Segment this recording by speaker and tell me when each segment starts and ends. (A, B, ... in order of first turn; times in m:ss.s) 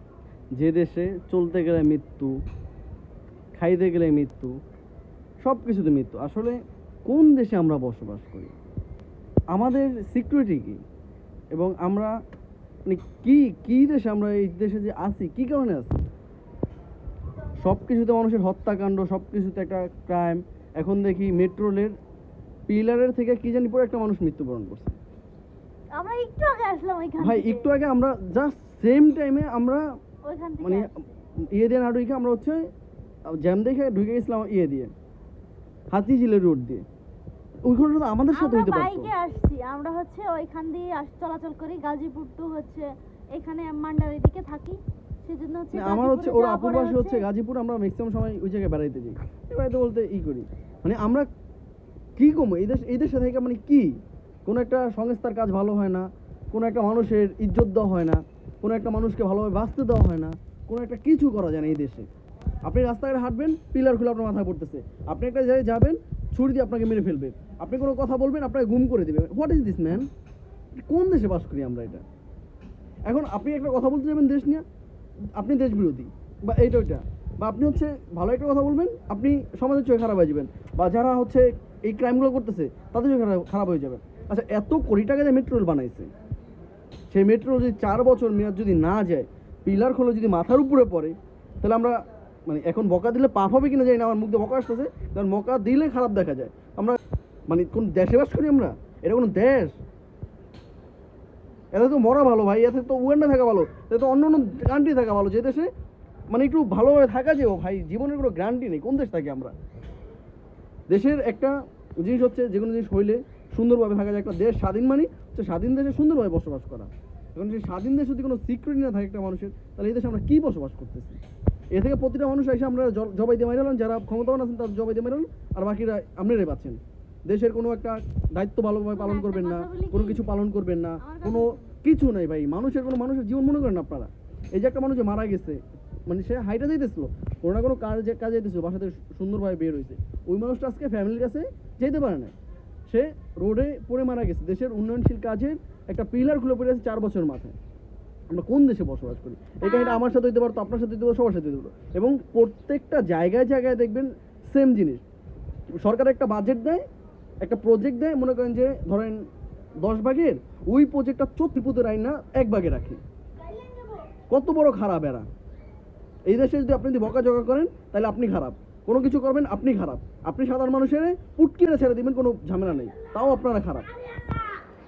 0:00.6-0:02.3 A
0:03.6-0:04.5 A
0:05.4-0:06.6 A
0:07.1-0:08.5 A
0:09.5-0:10.8 A
0:11.5-0:12.1 A
0:12.9-0:16.0 A
0:17.6-0:21.9 A
0:22.7-0:25.0 A
0:26.0-0:27.7 B
0:27.2-0:29.8 A
0:30.3-0:31.0 B
0:30.6-0:30.9 A
0:31.6-0:32.6 A
0:33.4-0:34.9 A
0:35.9-0:36.8 A
0:37.7-0:39.1 A
0:38.3-0:47.2 B
0:45.7-0:51.3 A
0:52.2-1:02.1 A
1:02.6-1:10.1 A
1:10.9-1:12.0 A
1:13.1-1:14.6 A
1:15.4-1:26.1 A
1:27.1-1:37.0 A
1:37.5-1:39.8 A
1:41.7-1:45.7 A
1:46.3-1:49.5 A
1:50.9-2:01.2 A
2:01.8-2:22.3 A
2:08.9-2:10.2 B
2:11.0-2:11.6 B
2:22.9-2:27.6 A
2:28.3-2:35.0 A
2:29.6-2:30.0 B
2:35.8-2:36.8 A
2:37.4-2:39.2 A
2:39.8-2:43.0 A
2:43.5-2:44.0 B
2:44.3-2:45.3 A
2:46.3-2:53.9 A